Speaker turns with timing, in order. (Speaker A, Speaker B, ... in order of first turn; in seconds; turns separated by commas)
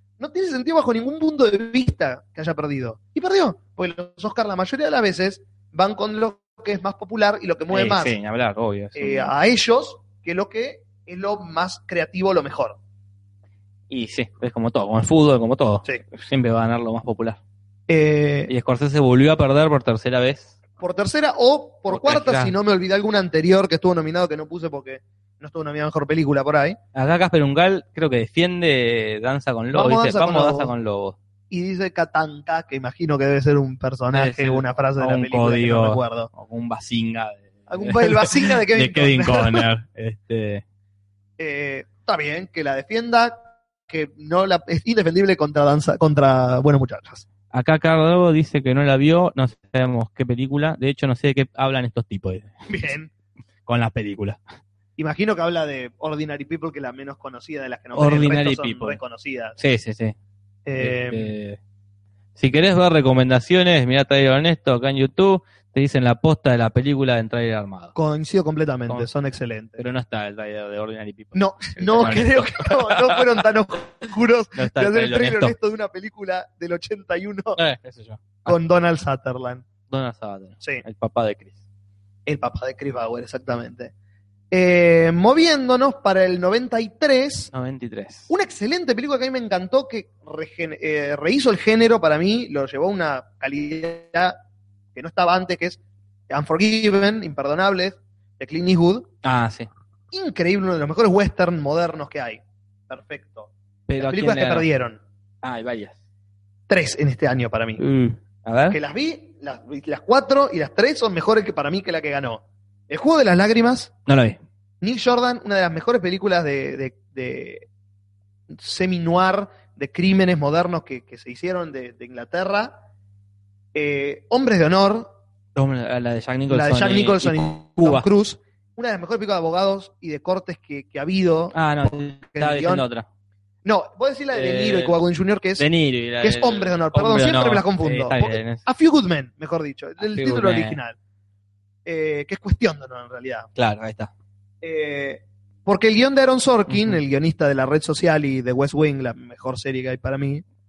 Speaker A: 0.2-8.2, Speaker B: 7.7-9.3, Speaker A: 8.9-12.8, Speaker B: 13.9-17.4, Speaker A: 17.9-18.5, Speaker B: 18.5-20.5, Speaker A: 20.8-26.8, Speaker B: 21.9-22.5, Speaker B: 26.9-31.2, Speaker A: 29.7-30.7, Speaker A: 31.5-36.3, Speaker B: 34.1-40.6, Speaker A: 37.7-39.7, Speaker A: 41.4-47.2, Speaker B: 47.5-52.5, Speaker A: 52.7-53.1, Speaker B: 53.6-54.4, Speaker A: 55.0-59.5, Speaker B: 57.9-59.0, Speaker B: 59.6-60.1, Speaker A: 60.6-61.3, Speaker B: 60.8-61.6, Speaker B: 62.4-67.9, Speaker A: 68.0-69.8, Speaker B: 69.8-73.2, Speaker A: 71.3-77.6, Speaker B: 74.5-75.5, Speaker B: 77.5-78.6, Speaker A: 78.5-79.6, Speaker B: 79.9-81.5, Speaker A: 82.2-83.9, Speaker A: 84.5-87.5, Speaker B: 87.5-88.3, Speaker A: 88.3-94.4, Speaker A: 94.9-99.1, Speaker B: 99.2-99.7, Speaker A: 100.1-105.0, Speaker B: 103.9-104.7, Speaker B: 105.4-106.0, Speaker A: 106.7-107.8, Speaker B: 107.8-108.8, Speaker A: 108.7-113.9, Speaker B: 114.1-114.4, Speaker A: 114.8-117.7, Speaker A: 118.5-122.7, Speaker A: 123.7-125.1, Speaker B: 125.5-128.1, Speaker A: 126.5-132.8, Speaker B: 131.5-133.1, Speaker A: 133.6-135.7, Speaker B: 134.3-135.0, Speaker B: 135.6-138.7, Speaker A: 136.2-141.0, Speaker B: 140.0-140.8, Speaker A: 141.8-143.5, Speaker B: 143.6-144.1, Speaker A: 144.6-150.4, Speaker B: 146.7-146.9